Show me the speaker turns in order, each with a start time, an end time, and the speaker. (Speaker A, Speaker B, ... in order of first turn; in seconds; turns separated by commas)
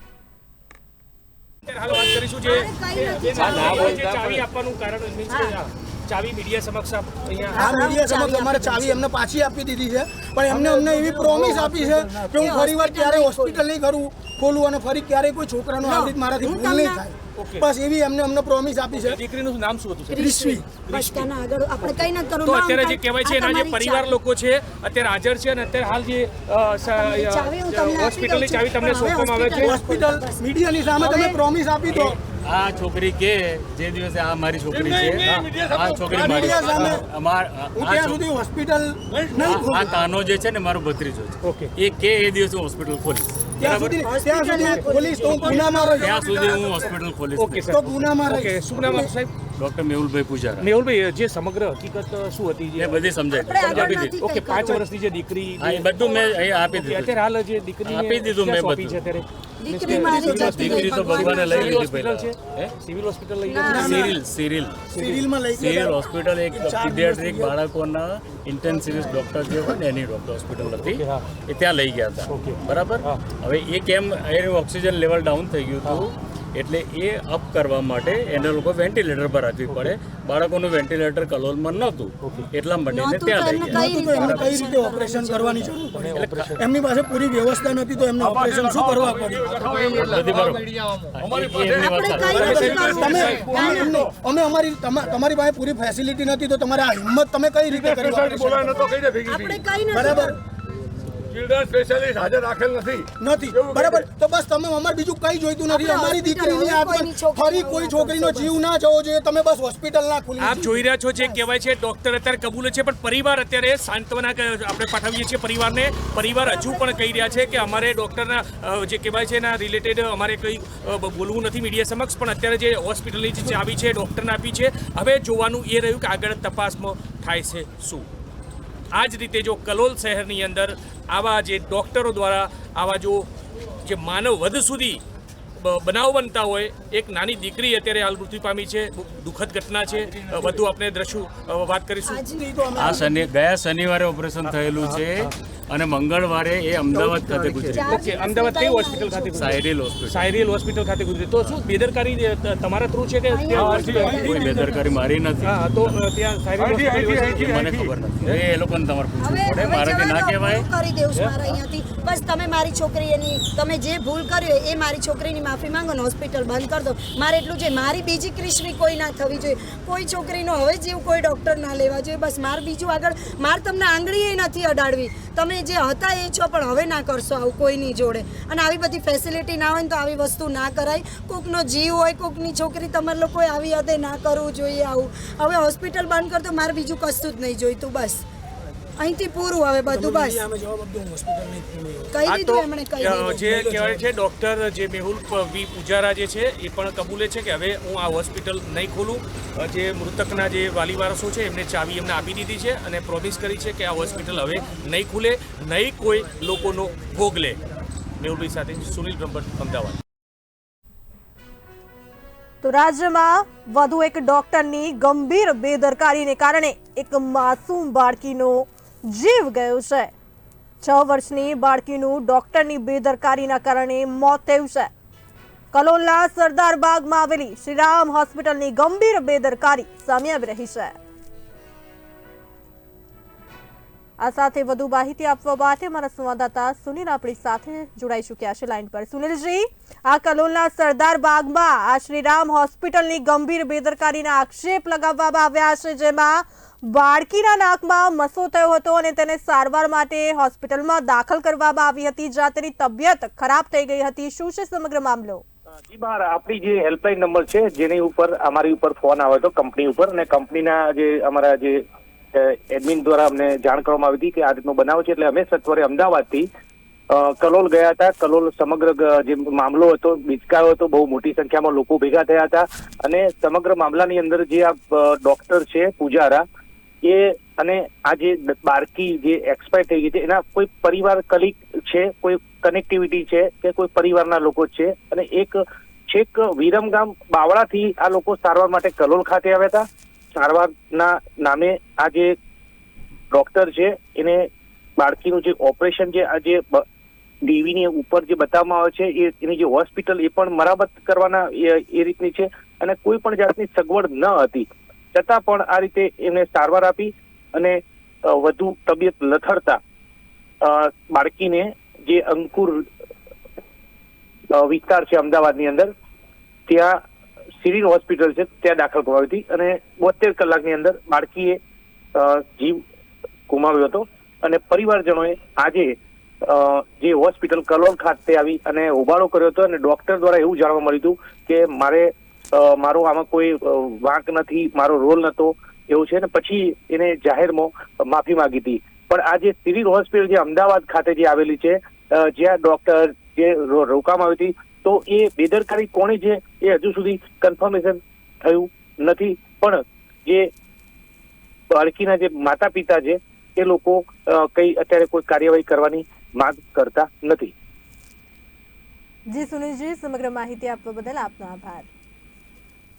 Speaker A: 1.6-7.9, Speaker B: 2.4-4.0, Speaker C: 3.4-4.4, Speaker B: 5.3-5.5, Speaker D: 7.5-19.2, Speaker B: 7.5-9.0, Speaker C: 10.9-11.8, Speaker B: 12.2-13.6, Speaker B: 15.8-17.0, Speaker A: 17.4-17.7, Speaker A: 18.9-29.8, Speaker B: 20.1-24.2, Speaker D: 20.2-20.8, Speaker B: 26.8-30.4, Speaker D: 29.6-32.2, Speaker B: 31.0-31.4, Speaker E: 32.0-38.2, Speaker C: 34.7-36.7, Speaker A: 35.2-35.5, Speaker D: 36.1-37.0, Speaker D: 37.7-40.0, Speaker C: 39.1-39.8, Speaker E: 39.4-43.4, Speaker A: 41.4-41.7, Speaker D: 43.6-46.2, Speaker A: 43.6-45.0, Speaker B: 44.1-45.6, Speaker C: 45.3-47.0, Speaker E: 46.0-47.7, Speaker A: 47.3-49.3, Speaker D: 47.7-49.1, Speaker E: 49.5-50.7, Speaker A: 50.6-64.1, Speaker E: 52.8-54.2, Speaker B: 53.4-54.8, Speaker E: 55.6-57.2, Speaker E: 57.8-59.0, Speaker B: 59.6-61.8, Speaker E: 59.9-62.7, Speaker D: 60.0-60.9, Speaker B: 63.4-63.7, Speaker D: 63.6-64.2, Speaker E: 63.7-64.9, Speaker D: 64.9-67.6, Speaker A: 65.0-65.2, Speaker E: 65.5-84.6, Speaker A: 70.8-71.3, Speaker A: 72.3-73.2, Speaker A: 79.7-79.9, Speaker A: 82.2-82.5, Speaker B: 82.9-85.7, Speaker D: 83.6-89.6, Speaker A: 85.9-86.6, Speaker E: 86.1-86.5, Speaker C: 88.2-94.1, Speaker E: 89.6-92.8, Speaker B: 91.8-94.0, Speaker D: 92.3-98.8, Speaker C: 97.7-99.8, Speaker B: 98.7-100.4, Speaker D: 99.9-100.4, Speaker C: 101.3-104.0, Speaker D: 103.2-110.8, Speaker B: 105.7-108.5, Speaker A: 110.4-128.1, Speaker A: 128.9-133.3, Speaker A: 133.8-135.0, Speaker A: 135.6-142.2, Speaker B: 142.1-142.9, Speaker D: 142.3-143.1, Speaker E: 142.7-148.0, Speaker A: 144.8-145.3, Speaker A: 146.9-154.3, Speaker B: 147.8-149.4, Speaker E: 149.3-150.2, Speaker B: 153.3-154.8, Speaker C: 153.5-154.6, Speaker E: 154.2-156.0, Speaker A: 155.4-158.4, Speaker C: 156.6-157.7, Speaker E: 157.2-160.7, Speaker B: 159.2-188.2, Speaker A: 161.1-161.4, Speaker B: 189.0-190.4, Speaker D: 189.8-192.2, Speaker B: 192.1-193.6, Speaker A: 192.2-207.6, Speaker D: 193.6-194.0, Speaker A: 208.2-210.0, Speaker F: 212.6-220.1, Speaker F: 220.8-224.9, Speaker F: 225.7-230.9, Speaker F: 234.2-255.4, Speaker G: 255.9-261.8, Speaker G: 262.3-266.5, Speaker G: 267.1-276.4, Speaker G: 277.0-292.4, Speaker G: 293.3-294.4, Speaker G: 295.0-296.8, Speaker G: 297.4-309.8, Speaker G: 310.6-312.9, Speaker G: 314.5-315.9, Speaker G: 316.7-317.0, Speaker G: 317.6-321.6, Speaker G: 322.1-322.8, Speaker G: 323.5-350.5, Speaker G: 351.7-357.5, Speaker F: 359.3-361.9